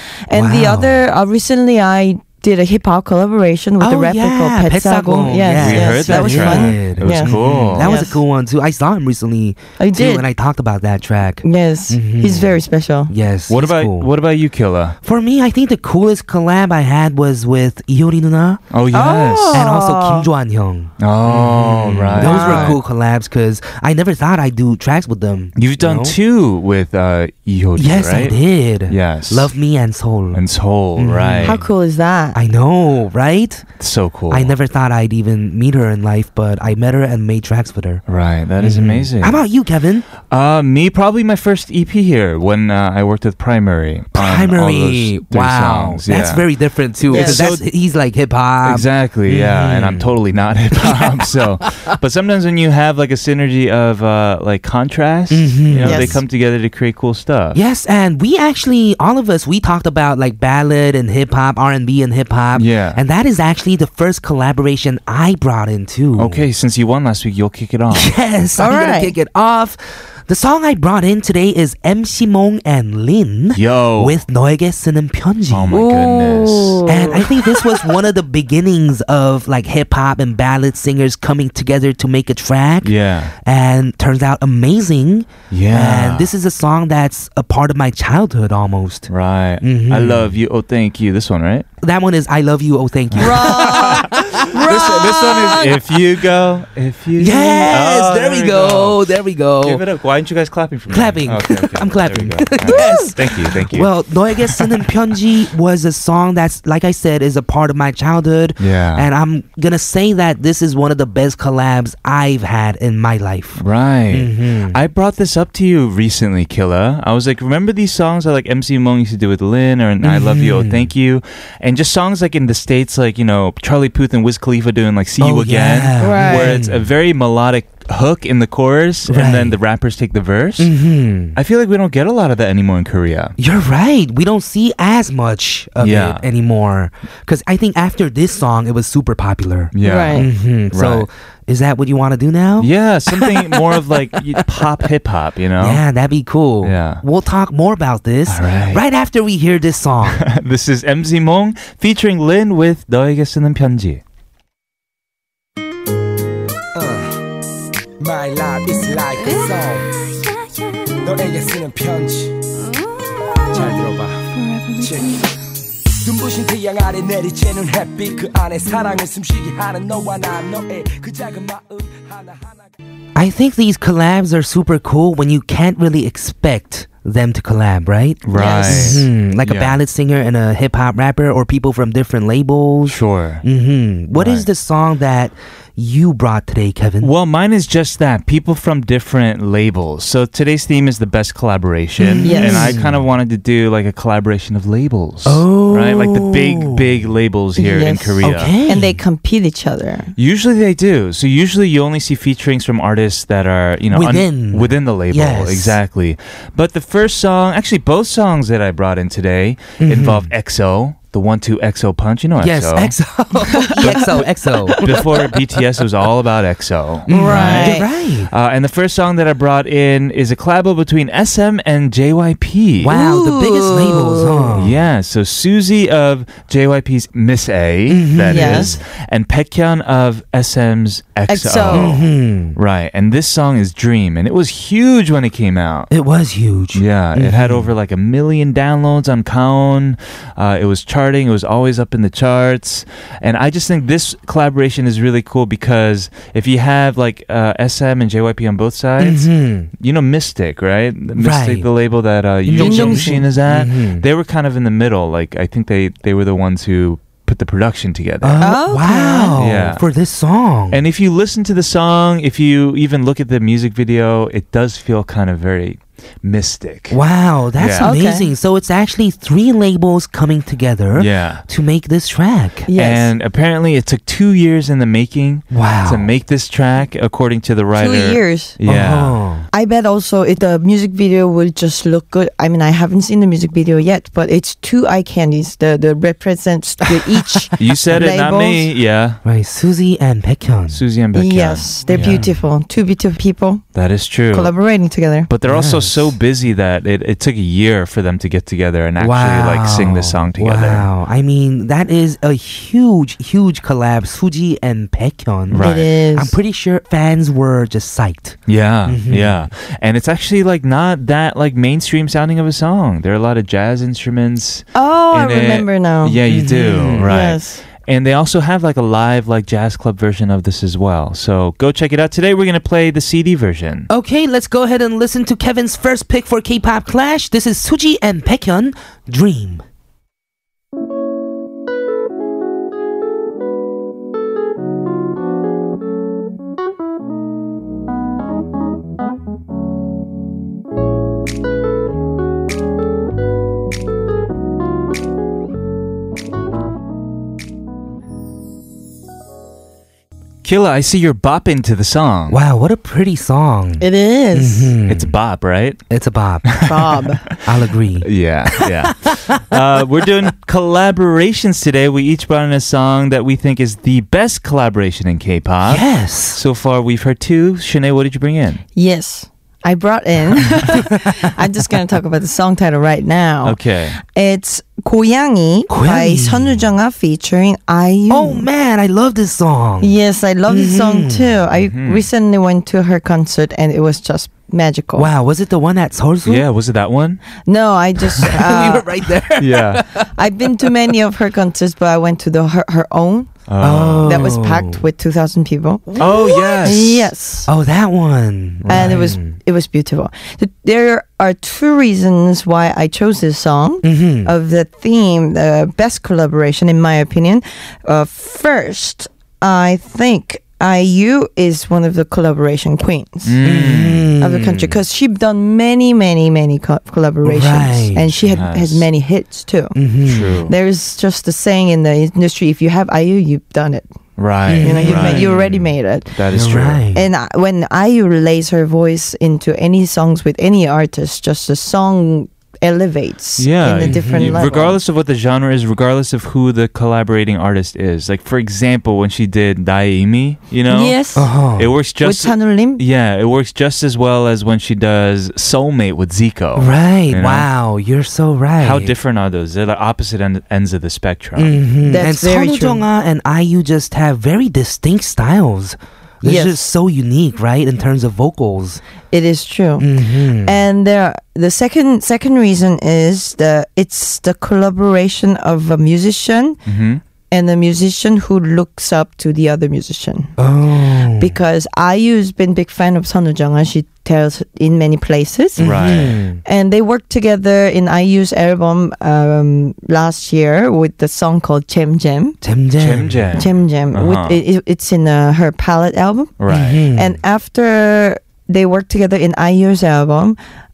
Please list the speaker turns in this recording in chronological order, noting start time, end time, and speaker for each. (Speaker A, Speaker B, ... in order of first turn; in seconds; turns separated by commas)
Speaker A: 0.3-8.2, Speaker B: 0.3-1.0, Speaker B: 3.8-12.6, Speaker C: 5.5-7.9, Speaker A: 9.8-10.3, Speaker A: 11.4-13.1, Speaker B: 13.1-14.1, Speaker C: 13.5-15.0, Speaker B: 15.0-18.6, Speaker C: 18.7-19.6, Speaker A: 18.9-20.3, Speaker B: 19.5-26.2, Speaker C: 21.0-22.8, Speaker A: 22.2-22.8, Speaker C: 25.6-29.5, Speaker B: 27.8-30.4, Speaker C: 30.3-31.6, Speaker B: 31.0-31.7, Speaker A: 31.4-32.4, Speaker B: 32.3-33.7, Speaker C: 33.8-34.5, Speaker B: 34.3-38.0, Speaker C: 38.1-39.4, Speaker B: 38.6-40.1, Speaker C: 40.2-46.5, Speaker B: 44.1-50.1, Speaker C: 47.0-47.6, Speaker A: 47.1-47.4, Speaker C: 48.6-57.6, Speaker B: 50.8-51.4, Speaker B: 55.3-56.2, Speaker A: 55.8-56.2, Speaker B: 57.5-66.4, Speaker C: 62.5-63.0, Speaker C: 66.2-68.2, Speaker B: 67.9-75.9, Speaker A: 68.6-69.1, Speaker C: 73.5-74.2, Speaker C: 75.5-76.9, Speaker A: 75.7-77.8, Speaker B: 76.9-89.1, Speaker C: 82.8-83.3, Speaker C: 85.5-86.3, Speaker C: 89.1-91.7, Speaker B: 89.6-90.4, Speaker B: 91.8-95.7, Speaker C: 93.1-99.1, Speaker A: 93.2-95.6, Speaker B: 97.2-99.8, Speaker C: 99.6-104.9, Speaker B: 100.9-114.8, Speaker A: 102.7-103.1, Speaker C: 108.6-109.1, Speaker C: 113.6-130.7, Speaker B: 120.0-120.9, Speaker B: 125.2-126.9, Speaker A: 126.0-126.6, Speaker B: 129.1-129.6, Speaker B: 130.6-131.4, Speaker C: 131.3-133.3, Speaker B: 133.4-144.7, Speaker C: 135.8-136.2, Speaker C: 139.8-141.1, Speaker A: 139.8-140.3, Speaker C: 142.6-145.8, Speaker B: 145.6-150.2, Speaker C: 146.6-147.0, Speaker C: 148.3-148.8, Speaker C: 150.1-154.0, Speaker D: 156.8-157.2, Speaker D: 158.0-159.9, Speaker D: 161.0-162.3, Speaker D: 163.5-165.2, Speaker D: 166.0-172.7, Speaker B: 173.2-187.1, Speaker C: 178.2-179.8, Speaker A: 178.3-179.0, Speaker C: 182.9-183.4, Speaker C: 184.1-184.5, Speaker C: 187.0-198.6, Speaker B: 192.0-193.1, Speaker A: 192.2-192.7, Speaker B: 195.2-197.1, Speaker A: 197.6-200.1, Speaker B: 198.2-199.0, Speaker C: 200.2-212.9, Speaker B: 203.9-205.8, Speaker B: 209.8-210.3, Speaker B: 212.4-215.1, Speaker A: 213.6-214.8, Speaker C: 214.8-223.0, Speaker B: 217.1-218.3, Speaker A: 217.1-217.9, Speaker B: 222.8-224.8, Speaker A: 222.9-224.6, Speaker C: 224.6-235.9, Speaker B: 227.9-228.8, Speaker A: 228.3-228.8, Speaker A: 231.3-231.9, Speaker B: 231.7-232.6, Speaker B: 235.9-237.7, Speaker C: 236.7-258.6, Speaker B: 249.0-249.7, Speaker B: 251.2-251.7, Speaker B: 252.5-254.1, Speaker A: 252.6-253.2, Speaker B: 258.2-260.8, Speaker A: 258.4-259.4, Speaker C: 259.4-259.8, Speaker C: 260.7-267.0, Speaker B: 266.9-272.7, Speaker C: 267.6-267.9, Speaker A: 267.8-268.3, Speaker C: 271.0-271.4, Speaker A: 272.7-273.1, Speaker C: 272.8-279.2, Speaker B: 275.5-276.1, Speaker A: 277.8-278.6, Speaker B: 278.6-279.5, Speaker A: 279.5-288.7, Speaker B: 286.9-287.4, Speaker C: 287.6-289.2, Speaker B: 289.2-290.8, Speaker C: 290.7-292.2, Speaker A: 291.1-293.6, Speaker B: 291.9-292.4, Speaker C: 293.8-294.5, Speaker A: 294.3-295.3, Speaker C: 295.3-300.9, Speaker B: 295.4-296.1, Speaker B: 299.0-309.4, Speaker C: 305.5-305.9, Speaker A: 305.6-306.4, Speaker C: 308.5-323.9, Speaker A: 314.8-316.2, Speaker B: 316.3-317.1, Speaker A: 317.0-317.6, Speaker B: 323.9-329.6, Speaker C: 350.4-352.4, Speaker B: 352.3-355.1, Speaker A: 353.8-354.7, Speaker C: 354.9-355.8, Speaker B: 355.9-356.6, Speaker C: 356.5-357.4, Speaker A: 356.6-357.2, Speaker B: 357.4-358.1, Speaker C: 358.0-368.6, Speaker B: 358.6-359.2, Speaker B: 365.6-366.4, Speaker A: 368.8-378.5, Speaker B: 370.9-371.2, Speaker C: 373.4-374.0, Speaker B: 375.7-376.7, Speaker B: 378.1-379.9, Speaker A: 379.8-385.1, Speaker B: 380.5-381.3, Speaker C: 381.5-382.1, Speaker B: 385.0-386.4, Speaker C: 386.2-387.2, Speaker A: 387.4-388.9, Speaker B: 388.1-390.1, Speaker C: 389.4-389.8, Speaker A: 390.2-393.3, Speaker C: 393.5-394.3, Speaker B: 393.6-394.8, Speaker A: 394.1-396.0, Speaker B: 395.9-396.9, Speaker C: 396.0-397.1, Speaker A: 396.6-397.5, Speaker B: 397.5-399.3, Speaker C: 398.6-399.0, Speaker A: 398.7-413.3, Speaker B: 403.8-404.3, Speaker C: 413.2-414.1, Speaker B: 413.4-414.8, Speaker A: 414.2-419.8, Speaker B: 417.2-418.1, Speaker C: 418.2-418.9, Speaker B: 419.8-420.4, Speaker C: 420.0-420.5, Speaker A: 420.5-423.9, Speaker C: 424.2-426.8, Speaker B: 424.5-425.3, Speaker A: 424.6-426.1, Speaker B: 426.3-427.1, Speaker A: 426.9-434.8, Speaker C: 433.4-441.0, Speaker B: 433.8-434.5, Speaker A: 440.7-441.3, Speaker B: 441.1-441.7, Speaker C: 441.5-447.5, Speaker A: 442.0-442.8, Speaker B: 446.6-448.9, Speaker C: 448.6-451.6, Speaker B: 451.4-458.8, Speaker A: 451.9-452.9, Speaker A: 456.2-456.7, Speaker A: 459.1-459.9, Speaker B: 459.8-460.6, Speaker A: 460.4-466.6, Speaker C: 466.7-467.0, Speaker A: 467.3-470.3, Speaker B: 470.4-471.4, Speaker A: 471.2-475.7, Speaker B: 475.6-476.4, Speaker C: 475.6-476.2, Speaker A: 476.4-482.4, Speaker B: 482.4-483.5, Speaker C: 482.8-484.4, Speaker A: 483.4-486.3, Speaker C: 486.4-486.8, Speaker B: 486.5-487.2, Speaker A: 486.9-490.4